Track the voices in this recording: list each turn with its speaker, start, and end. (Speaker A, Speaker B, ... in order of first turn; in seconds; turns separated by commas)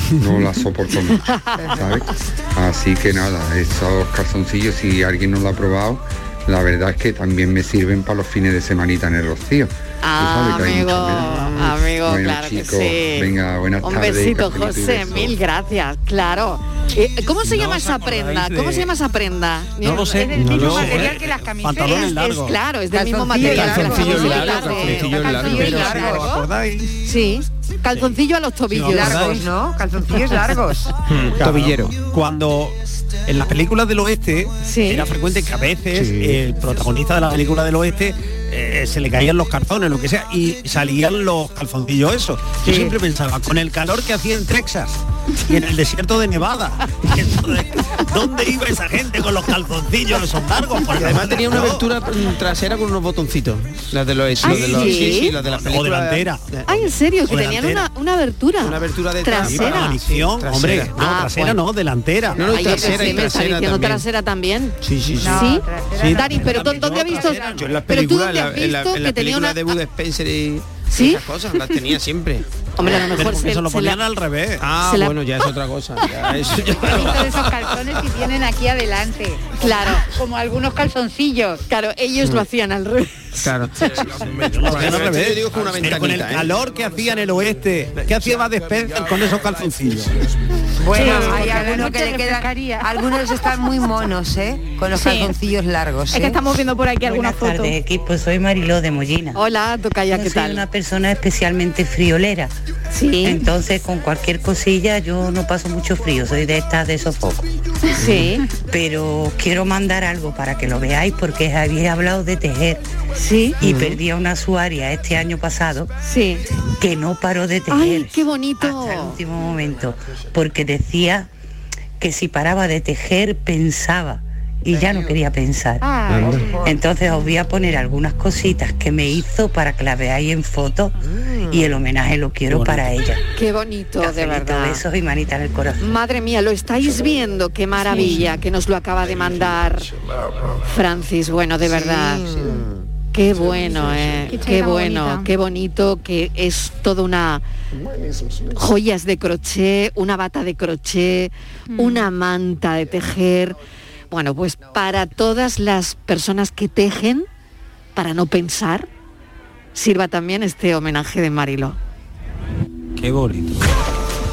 Speaker A: 0.2-15.4, Speaker B: 1.2-1.8, Speaker B: 10.0-21.1, Speaker C: 17.4-18.9, Speaker C: 19.8-22.6, Speaker D: 20.1-22.2, Speaker E: 20.4-21.1, Speaker B: 21.8-26.4, Speaker F: 22.9-24.6, Speaker C: 23.3-27.0, Speaker E: 23.4-25.8, Speaker F: 25.2-26.3, Speaker D: 25.4-26.4, Speaker B: 27.0-29.4, Speaker C: 28.7-29.4, Speaker F: 28.9-30.9, Speaker E: 31.1-32.0, Speaker C: 31.1-51.9, Speaker B: 34.6-35.1, Speaker E: 36.0-36.4, Speaker E: 50.9-56.8, Speaker C: 54.3-56.5, Speaker B: 54.4-55.4, Speaker B: 56.7-60.0, Speaker C: 57.2-57.9, Speaker E: 58.6-61.0, Speaker C: 59.3-63.5, Speaker B: 60.9-61.6, Speaker E: 62.4-64.0, Speaker B: 62.4-69.7, Speaker E: 64.8-65.5, Speaker C: 65.2-68.0, Speaker D: 65.2-67.6, Speaker E: 67.6-72.4, Speaker B: 70.9-71.2, Speaker B: 72.8-74.0, Speaker C: 72.8-75.0, Speaker E: 74.6-77.2, Speaker B: 74.8-75.2, Speaker C: 76.4-77.7, Speaker D: 76.8-81.6, Speaker B: 79.6-80.1, Speaker B: 81.7-84.1, Speaker E: 83.4-86.6, Speaker C: 84.4-90.2, Speaker F: 90.8-96.4, Speaker D: 90.9-92.9, Speaker G: 94.9-95.4, Speaker G: 96.1-97.8, Speaker H: 97.0-99.4, Speaker B: 99.3-100.6, Speaker H: 100.1-102.5, Speaker B: 102.9-103.5, Speaker H: 103.2-107.5, Speaker B: 107.9-108.5, Speaker H: 108.7-112.9, Speaker B: 113.1-113.6, Speaker H: 113.6-115.9, Speaker B: 116.0-116.4, Speaker H: 116.8-121.3, Speaker B: 117.7-119.2, Speaker H: 122.0-125.9, Speaker D: 125.8-126.6, Speaker E: 126.1-126.4, Speaker H: 126.6-133.2, Speaker C: 132.5-132.9, Speaker B: 133.3-134.8, Speaker H: 134.0-135.9, Speaker B: 135.8-139.9, Speaker G: 137.9-138.1, Speaker B: 140.7-142.4, Speaker B: 143.1-147.4, Speaker G: 144.3-145.3, Speaker B: 148.6-153.6, Speaker B: 154.1-157.3, Speaker B: 157.9-158.9, Speaker B: 159.7-161.8, Speaker C: 163.0-163.5